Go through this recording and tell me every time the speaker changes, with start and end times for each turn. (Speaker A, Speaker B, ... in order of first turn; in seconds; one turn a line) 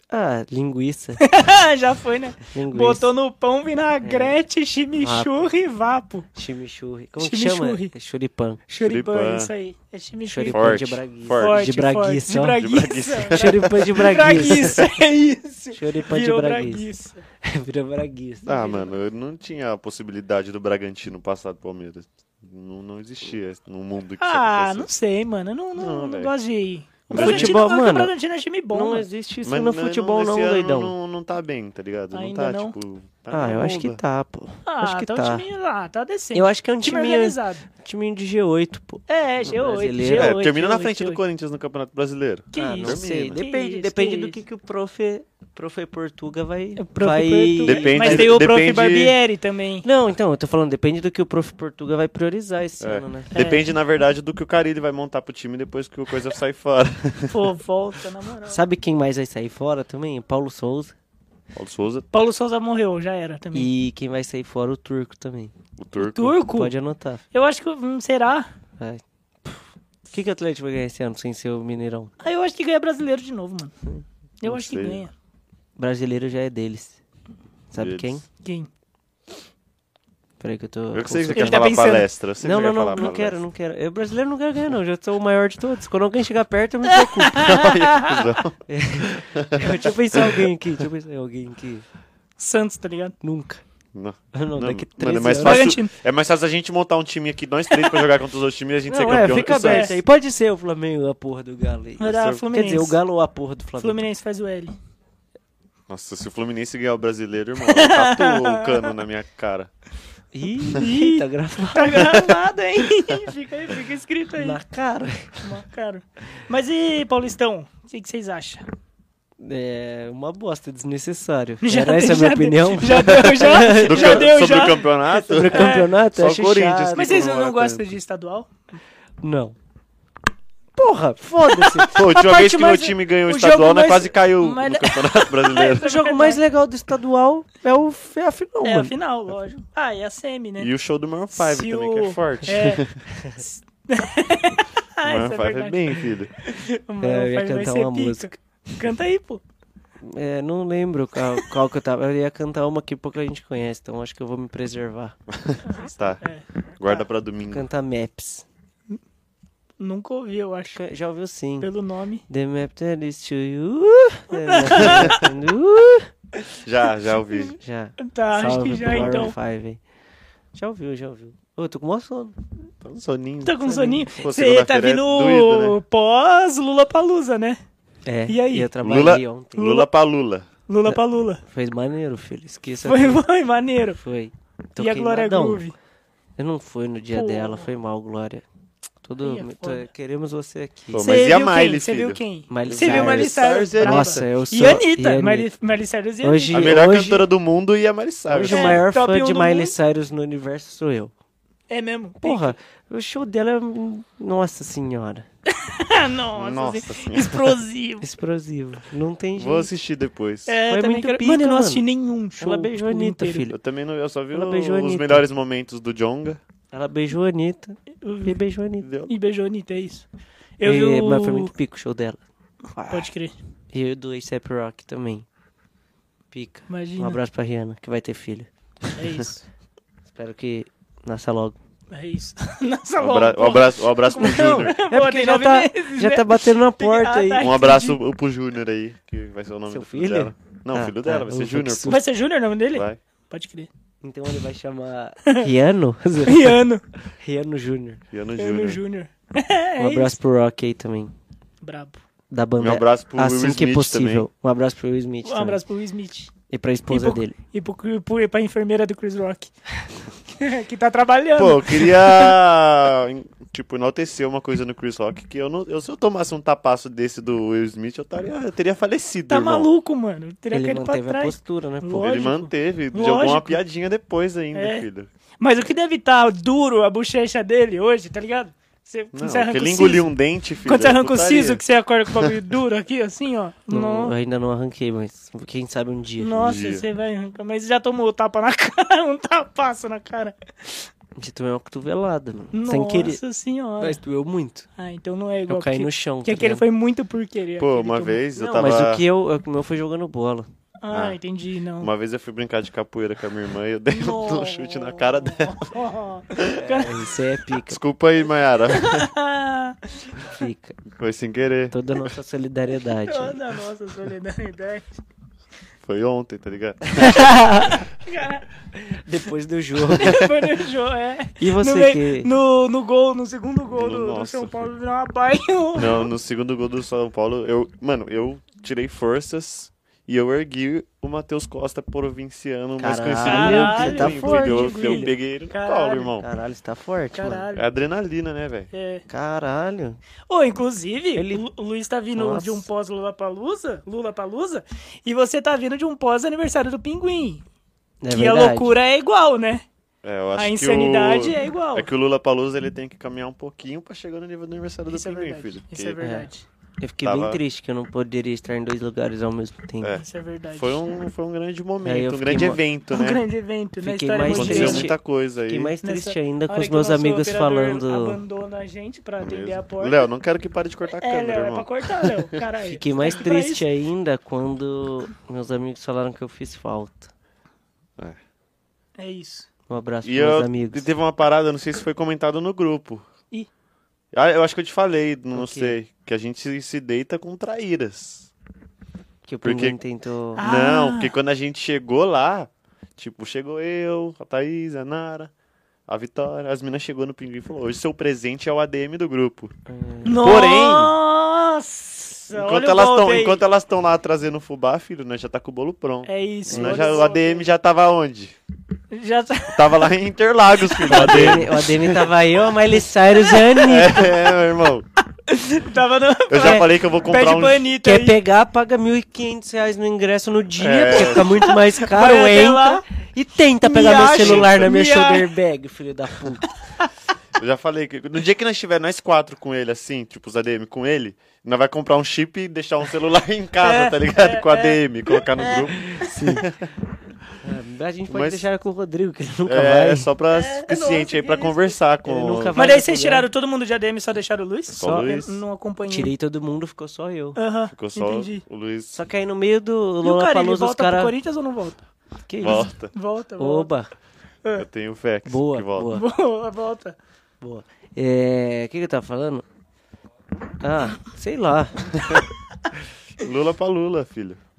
Speaker A: 0.1-1.2
Speaker B: 1.2-6.3
Speaker A: 2.5-3.1
Speaker A: 4.0-4.4
Speaker A: 5.0-5.5
Speaker A: 6.3-8.6
Speaker B: 7.2-7.9
Speaker B: 8.7-17.2
Speaker C: 8.8-9.5
Speaker A: 10.3-12.6
Speaker C: 10.5-11.7
Speaker C: 12.6-14.9
Speaker A: 13.3-14.8
Speaker A: 15.7-18.9
Speaker C: 18.4-24.9
Speaker B: 24.2-29.1
Speaker C: 25.7-26.3
Speaker C: 27.1-27.6
Speaker A: 27.1-28.1
Speaker A: 28.7-30.9
Speaker C: 29.4-34.0
Speaker B: 32.1-32.7
Speaker A: 33.3-35.5
Speaker B: 34.6-37.6
Speaker A: 36.3-40.4
Speaker B: 39.1-41.2
Speaker C: 40.0-43.4
Speaker B: 42.5-44.4
Speaker A: 42.5-48.4
Speaker B: 46.8-49.9
Speaker C: 47.6-49.2
Speaker A: 49.8-53.3
Speaker C: 52.8-57.5
Speaker B: 53.3-53.6
Speaker B: 57.3-58.6
Speaker A: 58.5-60.9
Speaker C: 61.5-62.1
Speaker B: 62.1-63.7
Speaker A: 63.5-65.5
Speaker C: 65.8-66.4
Speaker B: 66.0-66.7
Speaker A: 66.5-67.2
Speaker B: 67.3-68.5
Speaker A: 68.8-72.1
Speaker B: 72.2-73.7
Speaker B: 74.4-75.1
Speaker C: 74.4-75.0
Speaker A: 75.8-77.0
Speaker A: 77.7-78.2
Speaker C: 77.8-78.2
Speaker B: 78.4-78.7
Speaker A: 80.4-81.7
Speaker C: 80.9-83.4
Speaker B: 81.3-82.1
Speaker A: 82.4-87.6
Speaker B: 87.0-88.3
Speaker C: 87.3-90.5
Speaker A: 88.7-91.8
Speaker B: 92.4-93.1
Speaker A: 93.2-93.6
Speaker C: 93.9-100.0
Speaker A: 94.3-95.7
Speaker B: 95.4-95.9
Speaker A: 98.9-104.0
Speaker B: 98.9-99.9
Speaker B: 102.0-103.0
Speaker C: 102.0-102.4
Speaker B: 103.8-104.8
Speaker C: 105.9-109.7
Speaker B: 107.7-108.9
Speaker A: 110.3-112.3
Speaker B: 110.7-114.6
Speaker A: 114.4-115.5
Speaker B: 115.4-118.6
Speaker A: 119.4-127.2
Speaker B: 121.6-124.8
Speaker C: 123.8-127.9
Speaker B: 125.5-125.9
Speaker B: 126.9-128.5
Speaker A: 129.2-129.6
Speaker A: 130.8-134.0
Speaker B: 131.5-131.8
Speaker C: 131.9-135.9
Speaker B: 133.4-136.4
Speaker A: 135.8-138.9
Speaker B: 138.6-140.7
Speaker C: 140.6-142.9
Speaker B: 141.3-149.4
Speaker A: 143.1-143.4
Speaker C: 145.0-146.3
Speaker A: 147.0-148.3
Speaker A: 150.0-155.1
Speaker C: 155.3-156.2
Speaker B: 155.7-156.4
Speaker C: 156.8-157.7
Speaker A: 157.5-158.4
Speaker B: 159.8-160.8
Speaker A: 160.7-161.7
Speaker B: 161.6-162.2
Speaker A: 162.3-166.1
Speaker B: 164.3-165.3
Speaker C: 164.8-165.3
Speaker C: 166.6-167.5
Speaker B: 167.3-169.3
Speaker A: 167.6-169.8
Speaker C: 168.8-169.2
Speaker A: 170.5-172.3
Speaker C: 172.8-175.8
Speaker B: 173.4-177.6
Speaker A: 173.6-174.1
Speaker A: 178.1-179.8
Speaker B: 178.3-178.7
Speaker C: 178.8-180.4
Speaker B: 179.6-179.9
Speaker B: 180.7-181.4
Speaker A: 180.8-183.2
Speaker B: 182.8-184.0
Speaker A: 184.0-185.6
Speaker B: 184.8-185.7
Speaker A: 186.4-188.4
Speaker B: 187.1-187.7
Speaker A: 189.0-191.2
Speaker B: 189.2-189.9
Speaker C: 190.9-194.2
Speaker B: 191.0-196.7
Speaker A: 192.5-195.5
Speaker A: 196.2-197.3
Speaker C: 196.5-198.8
Speaker A: 198.3-201.1
Speaker B: 198.5-199.7
Speaker B: 201.7-202.5
Speaker A: 202.2-205.2
Speaker B: 205.5-208.1
Speaker C: 206.3-207.6
Speaker A: 208.0-209.7
Speaker C: 209.4-210.5
Speaker B: 210.5-213.5
Speaker A: 210.7-211.8
Speaker A: 212.4-213.6
Speaker C: 213.5-216.4
Speaker A: 214.3-215.2
Speaker A: 216.7-218.8
Speaker B: 218.0-218.4
Speaker C: 218.8-219.1
Speaker B: 219.1-220.0
Speaker B: 220.6-221.5
Speaker A: 220.6-222.2
Speaker A: 222.7-223.1
Speaker B: 222.9-223.3
Speaker A: 223.7-225.2
Speaker A: 226.3-228.9
Speaker B: 226.7-227.2
Speaker B: 228.9-229.4
Speaker A: 230.1-231.6
Speaker B: 231.9-238.0
Speaker C: 233.0-234.7
Speaker A: 234.7-237.5
Speaker C: 237.4-242.0
Speaker A: 239.7-242.0
Speaker B: 241.9-243.7
Speaker C: 242.7-243.0
Speaker A: 244.0-246.6
Speaker B: 246.2-246.8
Speaker A: 247.2-248.0
Speaker C: 248.1-248.8
Speaker B: 248.4-250.2
Speaker A: 249.8-251.1
Speaker B: 251.6-252.0
Speaker A: 252.3-255.6
Speaker C: 252.6-254.2
Speaker B: 255.2-256.3
Speaker A: 256.5-257.4
Speaker B: 256.9-259.5
Speaker B: 260.3-262.4
Speaker C: 261.3-269.7
Speaker B: 269.3-273.6
Speaker A: 270.5-272.3
Speaker C: 271.9-275.1
Speaker B: 274.5-274.9
Speaker B: 275.4-280.1
Speaker C: 279.1-282.3
Speaker B: 280.6-284.1
Speaker A: 283.7-286.4
Speaker B: 286.2-290.8
Speaker C: 286.4-286.8
Speaker A: 291.2-293.2
Speaker B: 292.5-294.0
Speaker A: 293.8-294.6
Speaker B: 294.8-298.2
Speaker A: 295.5-296.6
Speaker C: 297.6-299.0
Speaker A: 298.4-300.5
Speaker B: 300.8-301.9
Speaker C: 300.9-301.2
Speaker C: 301.8-305.7
Speaker B: 303.9-307.1
Speaker A: 306.5-307.8
Speaker C: 307.7-309.1
Speaker B: 308.7-310.3
Speaker A: 310.2-310.8
Speaker C: 310.9-311.8
Speaker A: 311.7-313.4
Speaker B: 312.8-314.9
Speaker C: 315.8-317.4
Speaker A: 316.9-317.8
Speaker B: 317.6-318.4
Speaker A: 318.7-320.2
Speaker C: 319.9-320.3
Speaker B: 319.9-326.1
Speaker A: 321.4-322.3
Speaker C: 323.7-324.6
Speaker C: 325.7-336.2
Speaker A: 332.8-335.1
Speaker B: 333.2-336.1
Speaker A: 336.2-337.4
Speaker B: 337.1-337.7
Speaker C: 337.5-338.7
Speaker B: 338.7-339.0
Speaker A: 339.1-340.0
Speaker B: 340.3-347.4
Speaker A: 341.1-341.4
Speaker A: 342.1-342.7
Speaker A: 348.0-348.7
Speaker B: 348.1-349.6
Speaker C: 350.0-356.0
Speaker B: 350.4-351.9
Speaker B: 354.9-356.4
Speaker A: 356.0-356.3
Speaker A: 356.8-360.0
Speaker C: 357.0-357.4
Speaker C: 359.8-363.2
Speaker B: 359.9-360.8
Speaker A: 361.8-362.6
Speaker B: 362.9-364.9
Speaker A: 363.8-368.2
Speaker C: 364.2-365.7
Speaker B: 365.8-370.1
Speaker C: 369.2-372.4
Speaker B: 370.9-373.6
Speaker A: 372.6-377.1
Speaker B: 379.0-379.5
Speaker A: 379.7-380.9
Speaker C: 380.0-383.1
Speaker C: 384.1-388.3
Speaker A: 385.3-385.8
Speaker A: 389.3-390.4
Speaker C: 389.4-389.8
Speaker B: 390.4-391.1
Speaker C: 390.4-395.3
Speaker C: 395.9-399.5
Speaker A: 399.7-400.4
Speaker B: 400.0-403.4
Speaker C: 400.1-400.9
Speaker C: 402.3-408.4
Speaker B: 406.1-407.5
Speaker A: 406.5-407.0
Speaker B: 408.9-409.9
Speaker C: 409.5-412.1
Speaker B: 410.6-411.4
Speaker A: 410.9-414.1
Speaker B: 413.1-413.9
Speaker C: 413.6-414.9
Speaker B: 415.3-418.2
Speaker C: 416.3-417.7
Speaker A: 416.4-416.6
Speaker A: 417.8-426.5
Speaker C: 420.6-421.5
Speaker B: 420.9-422.8
Speaker B: 423.6-425.3
Speaker C: 424.1-424.7
Speaker C: 427.4-436.7
Speaker B: 433.6-435.9
Speaker A: 435.8-436.5
Speaker A: 437.4-440.1
Speaker C: 438.1-438.4
Speaker C: 439.4-442.5
Speaker B: 440.3-441.7
Speaker A: 442.0-443.3
Speaker B: 442.5-446.1
Speaker C: 444.7-445.4
Speaker A: 444.8-445.1
Speaker A: 445.9-447.4
Speaker B: 447.4-448.4
Speaker C: 447.7-449.0
Speaker A: 448.9-451.1
Speaker B: 450.0-451.8
Speaker A: 452.3-452.7
Speaker C: 452.4-452.9
Speaker B: 452.4-453.7
Speaker A: 453.4-453.9
Speaker C: 454.5-455.9
Speaker A: 455.2-456.0
Speaker B: 455.9-456.9
Speaker A: 457.4-459.4
Speaker A: 460.6-462.0
Speaker C: 463.2-464.4